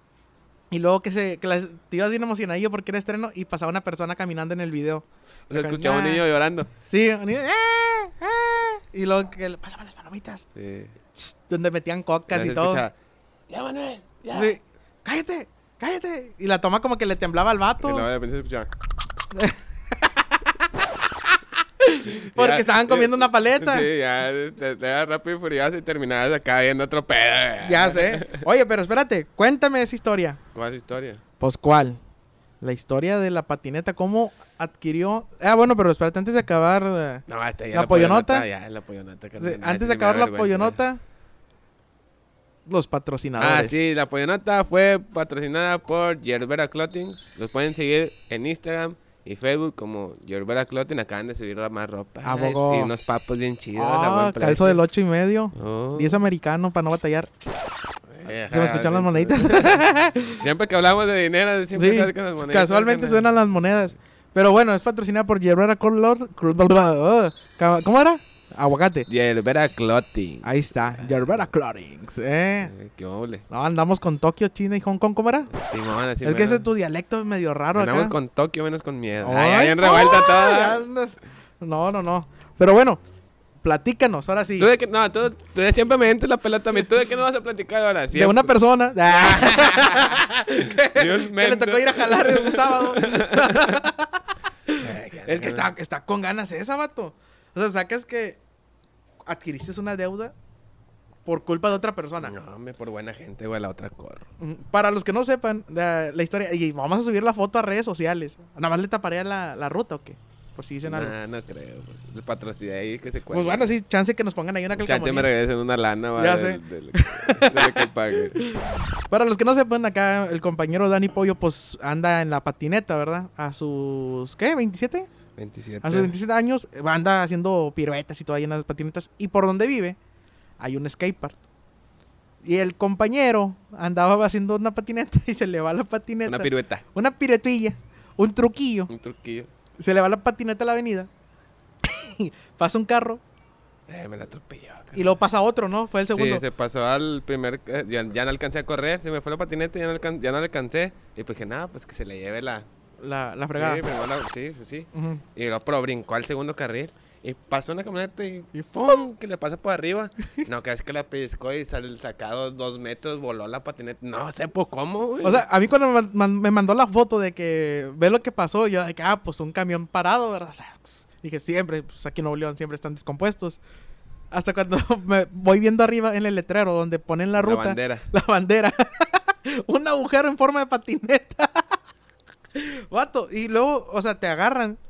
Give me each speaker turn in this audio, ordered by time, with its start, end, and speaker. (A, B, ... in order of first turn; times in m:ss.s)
0:00.7-0:06.2 A
0:05.5-0:06.7 B
0:06.9-0:10.5 A
0:10.6-0:10.9 B
0:11.1-0:12.8 A
0:12.3-0:12.9 B
0:13.5-0:14.6 B
0:14.3-0:18.1 A
0:17.8-0:18.7 B
0:19.3-0:20.7 A
0:21.8-0:23.9 A
0:22.1-0:28.4 B
0:27.6-0:30.4 A
0:30.5-0:31.2 B
0:31.4-0:32.0 A
0:32.6-0:38.5 A
0:37.3-0:40.8 B
0:39.4-0:41.0 A
0:42.6-0:43.8 A
0:43.4-0:54.8 B
0:52.2-0:52.9 A
0:53.8-0:57.3 A
0:55.6-0:56.2 B
0:58.1-1:03.3 B
0:58.5-1:00.4 A
1:01.8-1:09.1 A
1:09.1-1:11.3 B
1:10.4-1:12.7 A
1:12.6-1:13.4 B
1:13.5-1:15.5 A
1:15.5-1:16.6 B
1:16.2-1:18.1 A
1:17.8-1:20.8 B
1:19.2-1:23.0 A
1:23.6-1:24.7 A
1:24.6-1:28.5 B
1:28.1-1:38.4 A
1:29.1-1:33.8 B
1:34.8-1:35.7 B
1:39.3-1:40.3 A
1:41.3-1:42.4 A
1:42.2-1:44.3 B
1:44.4-1:51.1 A
1:50.9-1:53.7 B
1:53.3-1:55.3 A
1:54.7-1:58.4 B
1:56.2-2:05.1 A
2:05.4-2:06.1 B
2:05.8-2:10.0 A
2:10.6-2:11.4 A
2:12.4-2:18.9 A
2:16.2-2:16.8 B
2:18.9-2:19.5 B
2:19.8-2:21.1 A
2:21.8-2:23.2 A
2:23.9-2:25.2 B
2:24.9-2:26.4 A
2:26.1-2:32.7 B
2:33.0-2:33.8 A
2:33.5-2:45.4 B
2:34.9-2:35.2 A
2:38.6-2:39.0 A
2:45.2-2:53.6 A
2:54.3-3:01.8 A
2:57.4-2:58.1 B
3:02.6-3:04.8 A